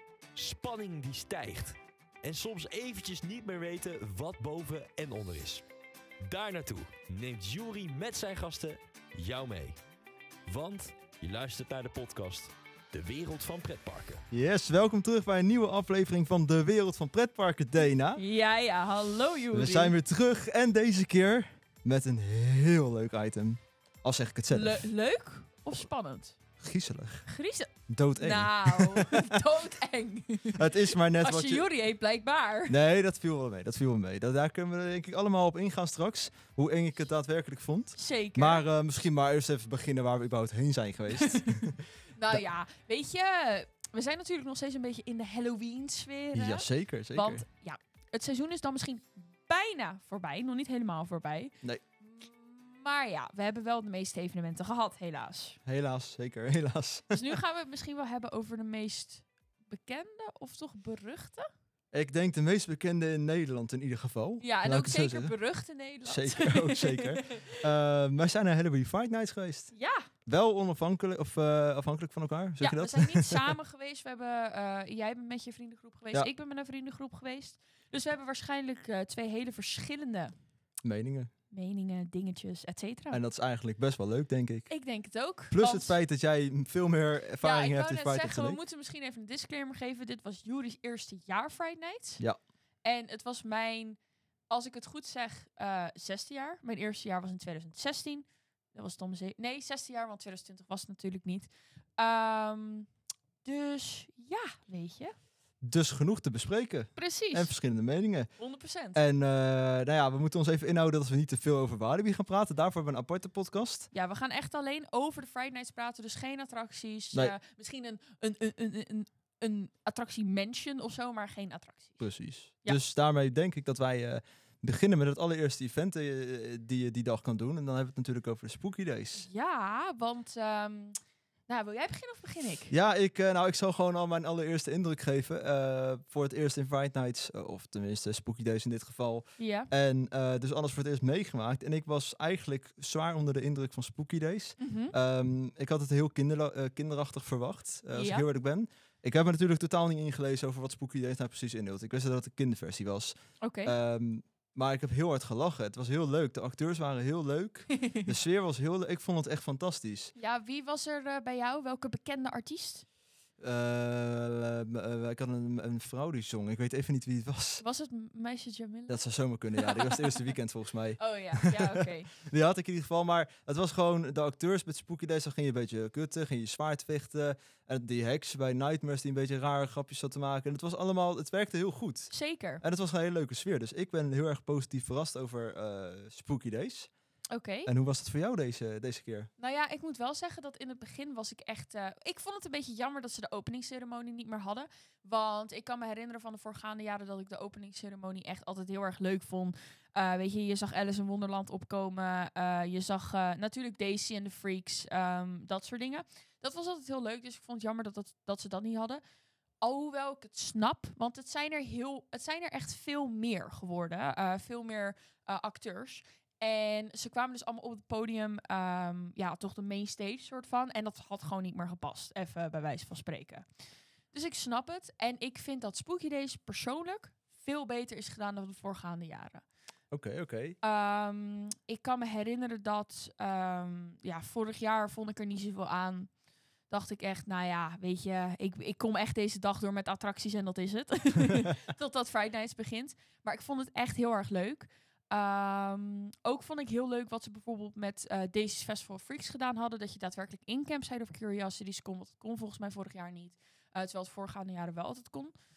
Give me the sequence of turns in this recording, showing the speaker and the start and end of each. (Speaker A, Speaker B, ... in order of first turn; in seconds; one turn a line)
Speaker A: 0.3-5.7
Speaker A: 6.2-9.8
Speaker A: 10.5-14.2
Speaker B: 14.3-18.2
Speaker C: 18.2-19.9
Speaker B: 19.5-24.8
Speaker C: 24.5-26.4
Speaker B: 26.6-27.3
Speaker C: 27.3-32.8
Speaker B: 27.9-29.4
Speaker B: 30.5-31.7
Speaker B: 32.7-42.4
Speaker C: 38.0-38.6
Speaker C: 41.1-41.5
Speaker C: 42.1-55.6
Speaker B: 46.3-47.4
Speaker B: 55.7-57.4
Speaker C: 57.1-61.5
Speaker B: 61.9-65.3
Speaker C: 64.4-67.7
Speaker B: 66.0-69.7
Speaker C: 69.7-70.1
Speaker B: 70.3-73.5
Speaker C: 72.6-80.3
Speaker B: 80.8-81.3
Speaker C: 81.5-83.2
Speaker B: 83.1-84.7
Speaker C: 84.7-86.0
Speaker B: 85.5-88.6
Speaker C: 87.4-92.2
Speaker C: 92.8-94.0
Speaker C: 94.5-102.9
Speaker C: 103.4-105.2
Speaker B: 105.6-108.3
Speaker C: 107.0-107.5
Speaker C: 108.4-109.0
Speaker B: 109.0-113.9
Speaker C: 113.9-122.0
Speaker B: 122.0-129.3
Speaker C: 129.2-131.0
Speaker C: 131.5-132.7
Speaker B: 132.7-160.1
Speaker C: 139.4-139.7
Speaker C: 144.6-144.9
Speaker C: 147.9-148.2
Speaker C: 153.4-153.7
Speaker C: 157.7-158.1
Speaker C: 160.2-162.8
Speaker B: 163.4-167.6
Speaker C: 167.6-169.0
Speaker B: 168.9-186.9
Speaker C: 169.6-170.3
Speaker C: 171.0-172.1
Speaker C: 182.1-182.6
Speaker C: 187.3-187.7
Speaker B: 187.7-189.3
Speaker C: 189.4-209.0
Speaker C: 209.6-223.4
Speaker C: 224.1-229.4
Speaker B: 229.9-230.6
Speaker C: 230.6-236.1
Speaker C: 236.7-255.3